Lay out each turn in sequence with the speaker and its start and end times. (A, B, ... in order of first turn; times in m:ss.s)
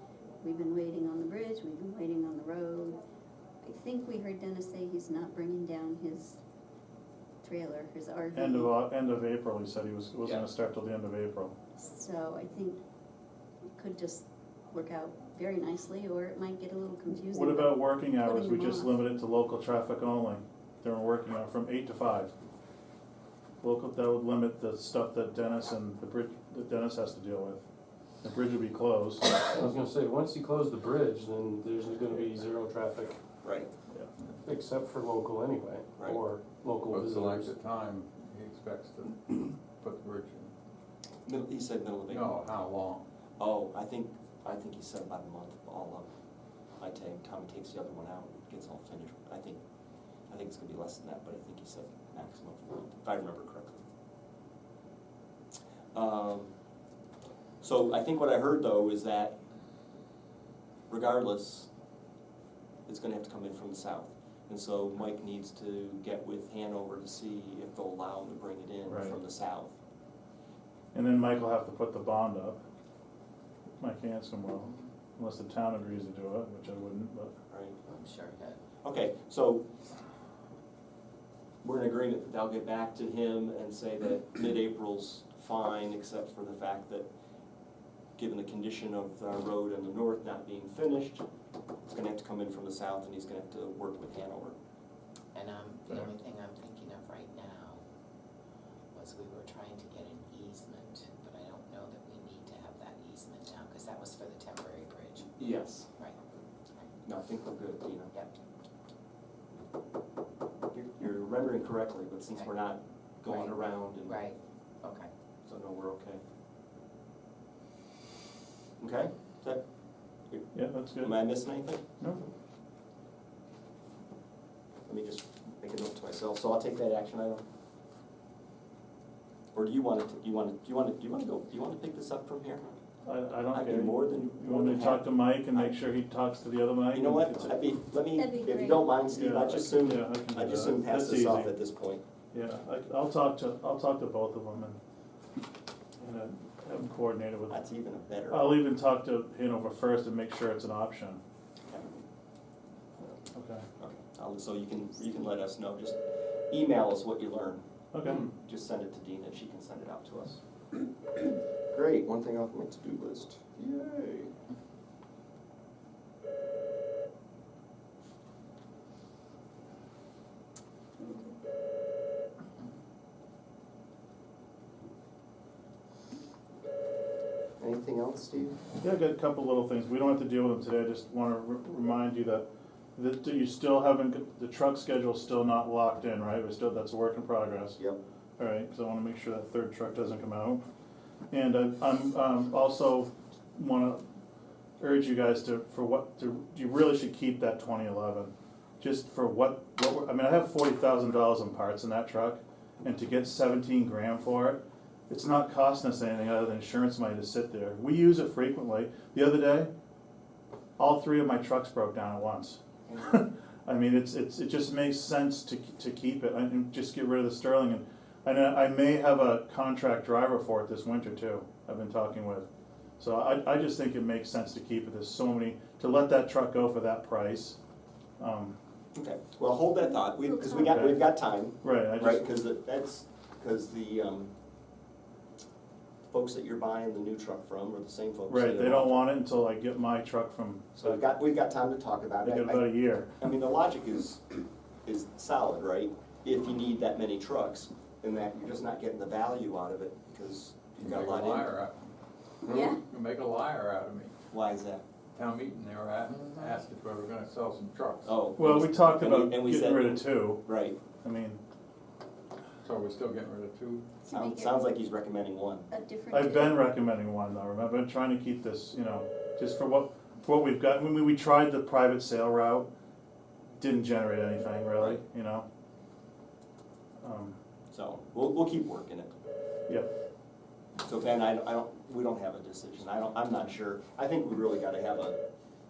0:00.4-0:03.0 A
0:03.6-0:06.4 A
0:07.4-0:08.7 A
0:08.3-0:11.6 B
0:11.8-0:12.8 A
0:13.8-0:19.0 A
0:17.3-0:22.3 B
0:23.6-0:27.6 B
0:28.2-0:29.3 B
0:29.5-0:33.2 C
0:33.4-0:33.7 D
0:34.4-0:37.5 C
0:36.9-0:40.5 E
0:41.2-0:42.4 D
0:42.1-0:43.1 E
0:43.4-0:46.1 D
0:46.8-0:49.6 D
0:50.3-0:53.8 D
0:55.9-0:56.5 D
0:57.6-0:59.4 D
1:00.9-1:01.7 D
1:02.9-1:09.7 D
1:08.9-1:09.2 B
1:10.9-1:12.6 B
1:13.8-1:17.3 B
1:17.5-1:17.8 D
1:17.9-1:18.6 F
1:18.8-1:19.7 D
1:21.6-1:27.1 D
1:28.2-1:31.2 D
1:31.9-1:34.5 D
1:35.3-1:37.8 F
1:38.9-1:45.3 F
1:45.4-1:45.9 D
1:47.0-1:48.1 D
1:50.7-1:54.3 D
1:53.3-1:55.1 F
1:55.5-1:56.2 D
1:58.8-1:59.6 D
2:00.3-2:01.8 D
2:00.5-2:01.2 B
2:02.0-2:02.2 B
2:04.9-2:07.4 D
2:09.5-2:12.6 D
2:13.0-2:17.6 B
2:13.5-2:15.8 D
2:16.9-2:22.0 D
2:18.1-2:19.0 A
2:19.1-2:21.6 B
2:22.3-2:24.8 B
2:26.0-2:27.6 B
2:27.5-2:28.5 D
2:28.3-2:31.2 B
2:33.3-2:33.6 B
2:33.8-2:40.4 D
2:37.9-2:38.3 B
2:41.7-2:44.3 D
2:57.6-2:58.6 D
2:58.8-3:07.8 B
3:08.4-3:10.6 B
3:11.3-3:14.0 B
3:14.8-3:29.7 B
3:30.8-3:42.5 B
3:43.0-3:47.6 B
3:48.2-3:48.6 B
3:48.9-3:54.3 D
3:50.2-3:50.5 A
3:50.5-3:52.3 B
3:56.1-3:59.0 D
3:58.3-4:01.0 B
4:00.8-4:11.5 D
4:02.2-4:03.1 B
4:10.8-4:11.9 E
4:12.5-4:12.8 A
4:12.5-4:14.1 E
4:14.3-4:14.8 D
4:15.1-4:18.1 E
4:18.0-4:20.8 D
4:18.4-4:21.4 B
4:22.6-4:23.9 E
4:24.0-4:24.7 A
4:24.1-4:25.6 D
4:25.7-4:26.7 A
4:26.1-4:32.7 B
4:33.6-4:35.4 B
4:37.0-4:37.4 B
4:37.7-4:39.1 D
4:40.8-4:45.2 D